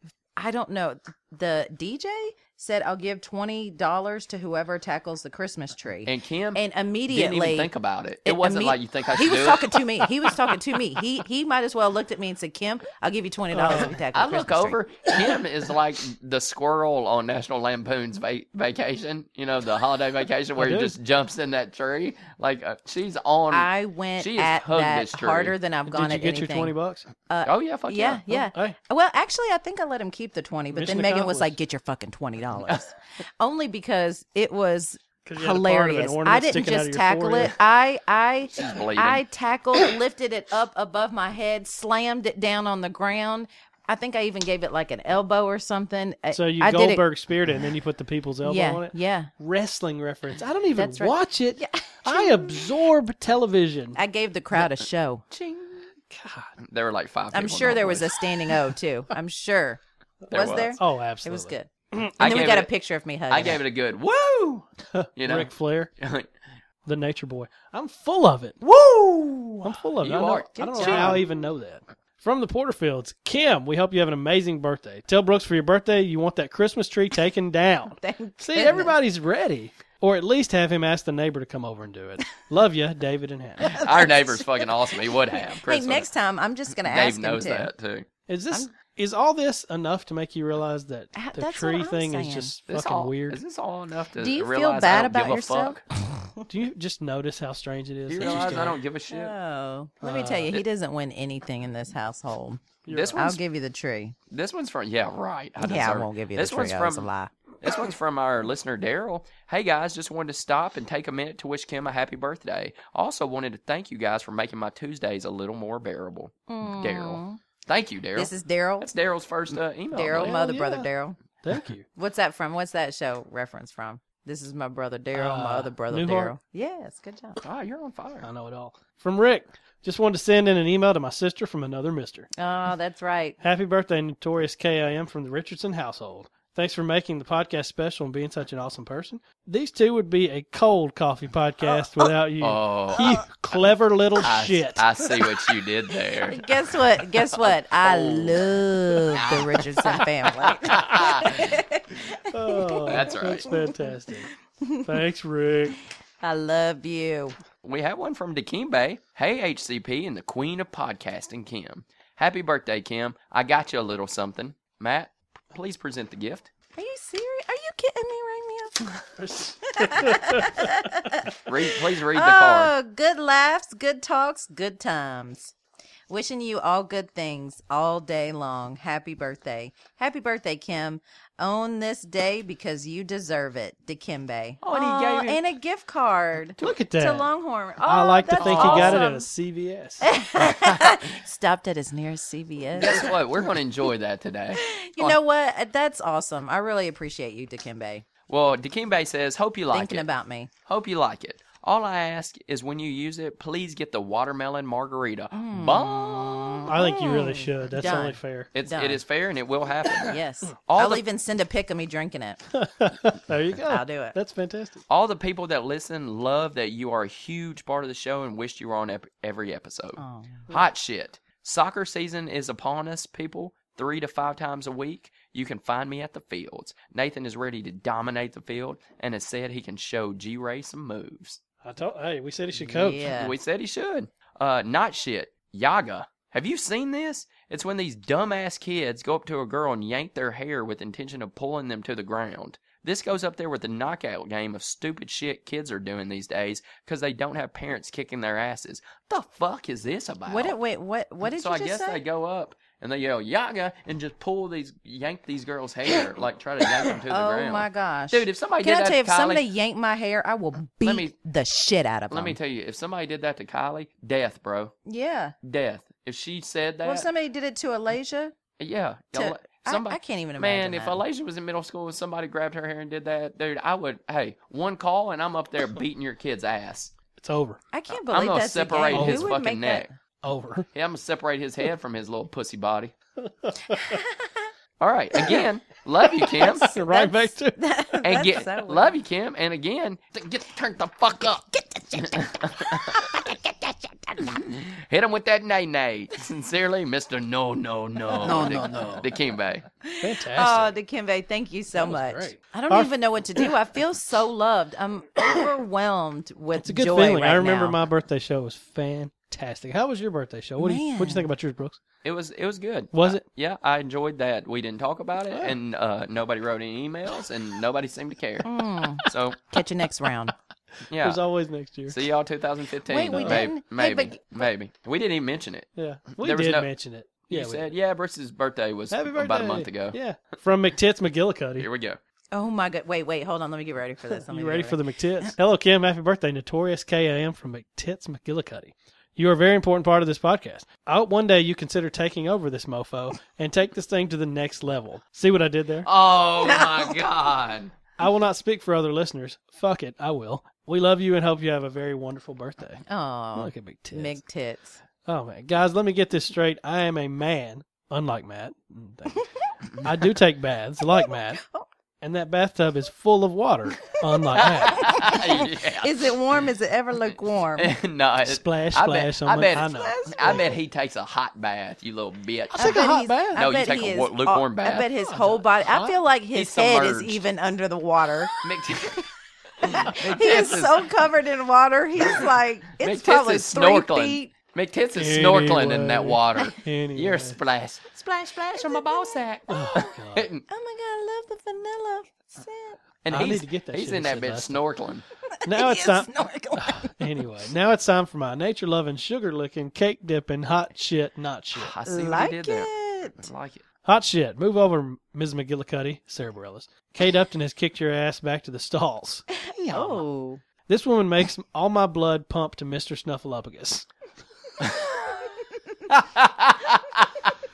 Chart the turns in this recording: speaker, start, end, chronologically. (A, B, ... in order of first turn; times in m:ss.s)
0:00.4-0:07.7 A
0:06.0-0:10.0 B
0:08.2-0:14.8 A
0:13.5-0:14.0 C
0:13.8-0:25.5 B
0:20.6-0:20.9 C
0:23.5-0:26.7 A
0:25.9-0:27.1 C
0:27.3-0:47.0 A
0:27.4-0:28.2 B
0:28.3-0:28.8 C
0:30.7-0:31.5 C
0:35.2-0:37.5 C
0:38.5-0:39.2 B
0:46.3-0:54.0 C
0:48.4-0:49.3 A
0:50.7-0:52.8 A
0:53.9-0:55.2 A
0:55.3-0:55.9 B
0:56.1-0:56.5 C
0:56.6-0:58.2 B
0:57.3-0:59.8 A
1:00.3-1:00.8 B
1:00.3-1:03.6 A
1:00.8-1:02.1 C
1:02.2-1:02.7 B
1:03.3-1:06.3 B
1:04.9-1:05.9 C
1:06.8-1:08.6 C
1:08.6-1:11.2 B
1:09.6-1:23.8 C
1:10.6-1:11.3 A
1:18.0-1:18.9 A
1:23.6-1:26.1 B
1:23.6-1:27.7 A
1:26.8-1:28.1 B
1:28.3-1:33.4 C
1:31.1-1:32.5 A
1:32.7-1:35.8 B
1:34.2-1:36.4 A
1:36.5-1:38.8 C
1:38.1-1:39.3 B
1:38.2-1:44.2 A
1:40.0-1:40.5 C
1:42.8-1:43.2 C
1:42.9-1:43.4 B
1:44.3-1:47.1 B
1:45.6-1:47.3 A
1:47.6-2:00.4 B
1:56.5-1:57.4 A
1:58.2-1:58.9 A
1:59.5-2:01.2 A
2:00.1-2:00.9 C
2:01.4-2:01.8 C
2:02.0-2:07.4 A
2:05.1-2:06.3 C
2:07.4-2:08.3 B
2:08.2-2:12.3 C
2:12.4-2:13.4 A
2:13.4-2:25.0 C
2:22.4-2:23.1 B
2:22.9-2:23.2 A
2:24.2-2:31.6 B
2:26.2-2:33.9 A
2:32.3-2:34.3 C
2:32.8-2:33.5 B
2:34.6-2:34.9 A
2:34.8-2:35.8 C
2:36.2-2:37.4 A
2:37.6-2:46.5 B
2:46.8-2:49.1 A
2:49.2-2:50.7 C
2:49.6-2:51.4 A
2:51.4-2:52.7 B
2:52.1-2:55.5 A
2:56.1-3:09.3 A
3:04.6-3:05.5 B
3:06.6-3:07.3 C
3:07.8-3:10.1 C
3:08.4-3:09.0 B
3:10.0-3:13.5 A
3:12.8-3:15.2 B
3:14.6-3:18.0 A
3:18.3-3:20.0 B
3:19.7-3:20.5 A
3:20.7-3:26.7 B
3:25.3-3:29.0 A
3:26.7-3:28.5 C
3:28.5-3:31.0 B
3:30.0-3:32.4 A
3:32.5-3:34.8 C
3:33.7-3:34.2 A
3:34.9-3:51.4 B
3:40.0-3:40.4 A
3:51.6-3:53.1 C
3:52.7-3:53.3 A
3:53.0-4:10.6 B
4:10.3-4:12.0 A
4:11.3-4:19.4 B
4:16.9-4:22.4 A
4:20.8-4:21.1 B
4:22.1-4:24.7 B
4:24.8-4:25.4 A
4:25.4-4:27.1 B
4:26.8-4:28.4 A
4:28.6-4:36.9 B
4:29.1-4:31.0 A
4:37.2-4:37.6 C
4:37.7-4:39.9 A
4:37.9-4:39.9 B
4:38.9-4:39.3 C
4:40.2-4:40.6 C
4:40.7-4:42.9 B
4:43.2-4:44.0 C
4:43.7-4:44.4 A
4:44.8-4:46.8 B
4:46.1-4:47.6 C
4:46.3-4:49.0 A
4:48.0-4:53.1 B
4:51.5-4:54.4 A
4:54.3-4:59.6 B
4:58.2-4:58.9 A
4:58.2-4:59.1 C
4:59.8-5:07.8 A
5:00.0-5:00.7 C
5:01.7-5:03.5 C
5:06.6-5:11.8 C
5:10.6-5:11.3 A
5:12.0-5:19.5 B
5:12.9-5:13.2 C
5:15.3-5:15.5 C
5:18.4-5:20.3 A
5:20.9-5:21.2 B
5:21.0-5:22.0 C
5:21.9-5:26.7 B
5:22.9-5:24.5 A
5:23.1-5:23.5 C
5:25.7-5:27.7 C
5:27.3-5:30.0 B
5:28.9-5:31.7 C
5:31.6-5:32.0 B
5:32.3-5:35.3 A
5:34.1-5:45.9 C
5:45.8-5:47.7 B
5:48.0-5:52.8 C
5:52.9-5:54.8 A
5:53.3-5:54.2 C
5:55.0-5:59.2 C
5:59.1-5:59.4 A
5:59.8-6:01.4 C
6:00.9-6:01.6 A
6:02.0-6:04.9 C
6:04.3-6:06.2 B
6:04.6-6:07.7 A
6:07.5-6:12.8 B
6:08.2-6:10.5 C
6:09.6-6:10.5 A
6:12.5-6:13.4 C
6:12.6-6:19.1 A
6:13.3-6:14.9 B
6:15.0-6:16.0 C
6:16.3-6:17.2 B
6:18.4-6:19.0 B
6:19.6-6:20.8 B
6:19.6-6:24.3 A
6:22.8-6:30.4 B
6:24.9-6:27.4 C
6:28.5-6:29.2 A
6:29.5-6:30.3 C
6:30.5-6:32.8 A
6:33.0-6:35.0 B
6:33.1-6:34.6 C
6:35.4-6:37.1 A
6:35.4-6:41.7 C
6:41.5-6:43.6 B
6:41.8-6:43.2 A
6:43.8-6:49.2 C
6:49.4-6:50.4 A
6:49.5-6:50.0 B
6:50.7-6:53.9 C
6:55.1-6:55.3 A
6:55.9-6:57.0 B